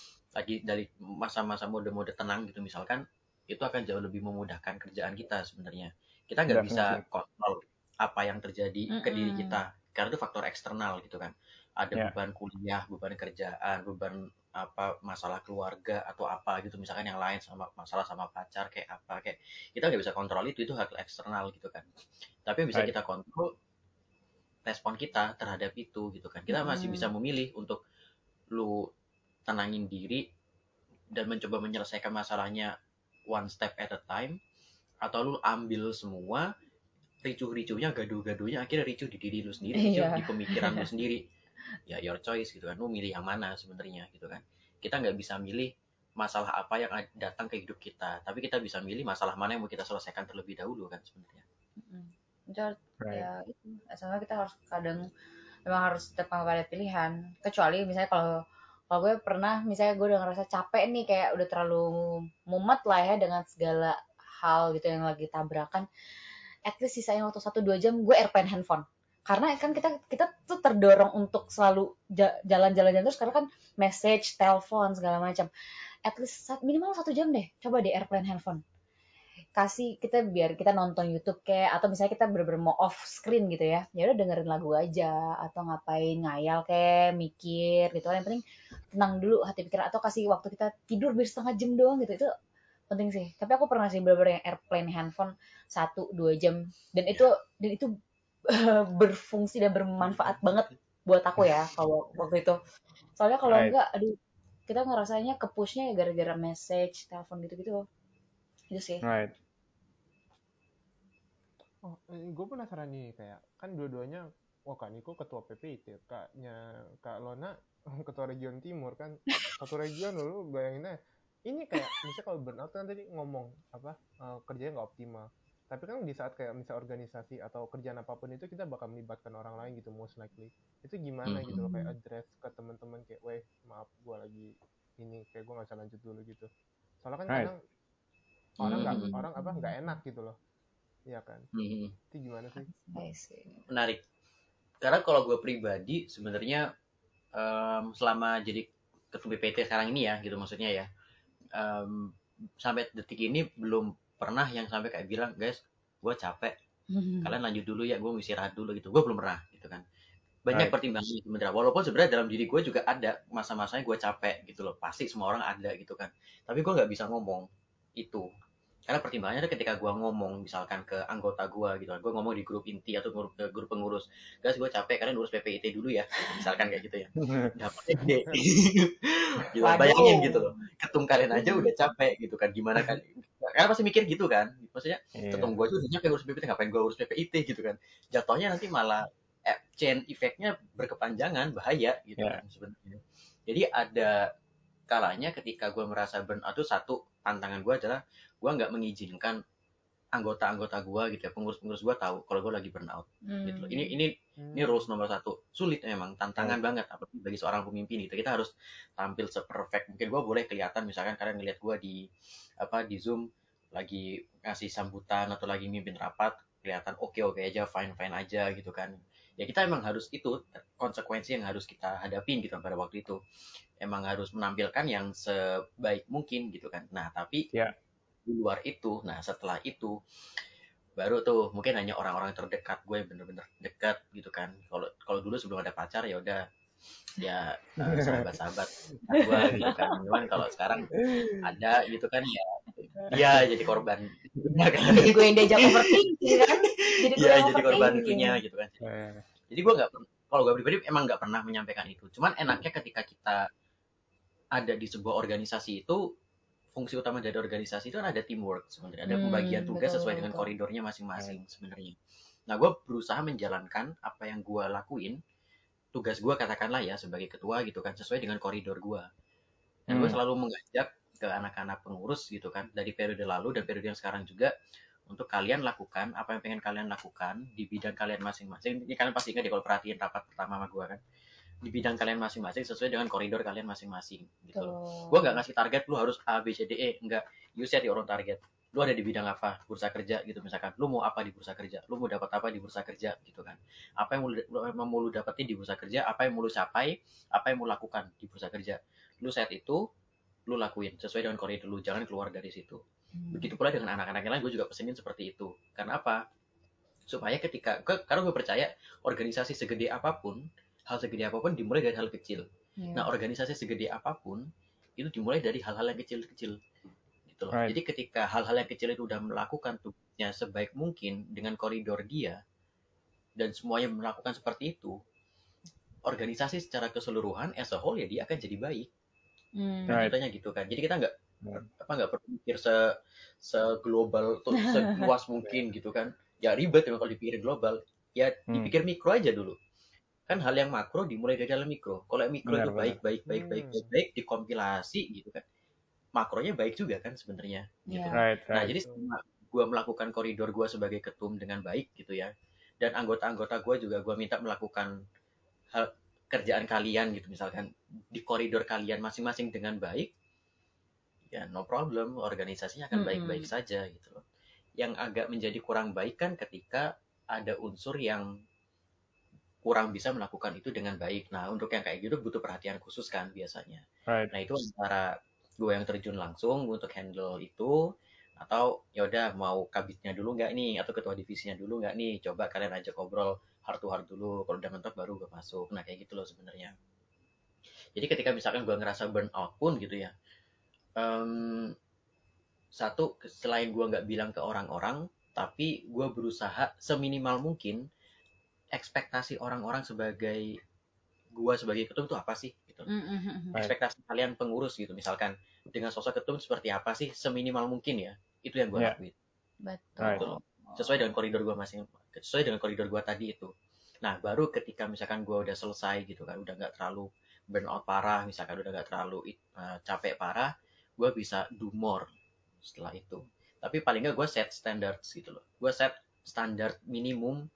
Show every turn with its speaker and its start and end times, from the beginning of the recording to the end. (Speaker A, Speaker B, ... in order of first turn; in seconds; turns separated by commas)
Speaker A: 0.3-21.9, Speaker B: 6.5-7.0, Speaker C: 8.9-9.6, Speaker A: 22.4-23.5, Speaker A: 24.6-27.8, Speaker C: 26.5-27.1, Speaker A: 28.5-28.9, Speaker A: 29.5-30.2, Speaker A: 31.1-32.7, Speaker A: 33.3-34.4, Speaker A: 35.0-36.5, Speaker A: 37.2-41.2, Speaker C: 39.8-40.9, Speaker A: 41.9-51.4, Speaker C: 51.8-55.1, Speaker B: 53.0-53.3, Speaker C: 55.6-65.9, Speaker C: 66.7-75.5, Speaker C: 76.0-78.6, Speaker C: 79.6-88.4, Speaker C: 88.9-92.3, Speaker C: 92.9-97.9, Speaker C: 98.5-102.6, Speaker C: 103.2-104.2, Speaker B: 103.5-103.7, Speaker C: 104.7-107.8, Speaker C: 108.7-109.0, Speaker B: 109.0-109.3, Speaker D: 111.8-136.5, Speaker A: 131.2-131.6, Speaker C: 131.6-131.9, Speaker D: 137.0-137.6, Speaker A: 138.6-139.1, Speaker D: 138.6-140.4, Speaker C: 138.7-139.4, Speaker D: 141.1-141.5, Speaker A: 141.5-141.9, Speaker D: 142.1-142.7, Speaker C: 142.7-143.6, Speaker A: 143.7-144.0, Speaker A: 144.8-146.7, Speaker A: 147.3-150.9, Speaker A: 151.5-156.5, Speaker C: 156.9-157.3, Speaker A: 157.2-159.8, Speaker A: 160.4-167.4, Speaker A: 168.0-168.2, Speaker A: 168.9-194.2, Speaker C: 179.6-180.5, Speaker C: 181.4-181.7, Speaker B: 185.2-185.6, Speaker A: 194.9-199.4, Speaker A: 200.1-212.1, Speaker C: 203.3-203.9, Speaker D: 204.4-204.8, Speaker A: 212.6-223.2, Speaker A: 223.8-227.4, Speaker A: 228.2-230.0, Speaker A: 231.0-236.4, Speaker A: 237.2-248.8, Speaker B: 237.9-238.3, Speaker C: 239.1-239.9, Speaker B: 241.0-241.4, Speaker B: 243.1-243.4, Speaker C: 244.9-248.4, Speaker B: 248.8-249.2, Speaker A: 249.5-253.4, Speaker A: 254.5-256.0, Speaker A: 256.7-261.9, Speaker C: 259.1-260.5, Speaker A: 262.5-265.2, Speaker A: 265.9-269.1, Speaker A: 269.9-274.5, Speaker B: 269.9-270.2, Speaker A: 275.1-281.0, Speaker A: 281.6-299.8, Speaker C: 284.5-285.4, Speaker A: 300.5-302.8, Speaker C: 303.2-303.5, Speaker A: 303.3-306.2, Speaker A: 307.1-314.4, Speaker C: 312.8-313.1, Speaker A: 315.0-316.6, Speaker A: 317.3-322.4, Speaker A: 323.4-325.0, Speaker A: 326.0-328.9, Speaker C: 329.6-330.0, Speaker A: 329.9-339.6, Speaker B: 329.9-330.1, Speaker C: 334.6-335.1, Speaker A: 340.3-345.4, Speaker B: 342.4-343.0, Speaker D: 343.3-343.9, Speaker A: 346.1-354.9, Speaker C: 347.9-348.2, Speaker B: 348.1-348.8, Speaker A: 355.7-360.1, Speaker A: 361.3-364.2, Speaker C: 362.9-363.5, Speaker A: 364.8-368.3, Speaker A: 369.6-377.7, Speaker B: 374.1-374.3, Speaker A: 378.4-386.7, Speaker A: 387.9-390.1, Speaker A: 391.0-391.7, Speaker A: 392.8-397.8, Speaker A: 398.7-400.6, Speaker A: 401.3-402.9, Speaker C: 402.9-403.5, Speaker A: 403.5-409.1, Speaker C: 409.6-411.0, Speaker B: 410.0-410.2, Speaker A: 410.0-413.5, Speaker A: 414.0-422.1, Speaker A: 422.6-427.4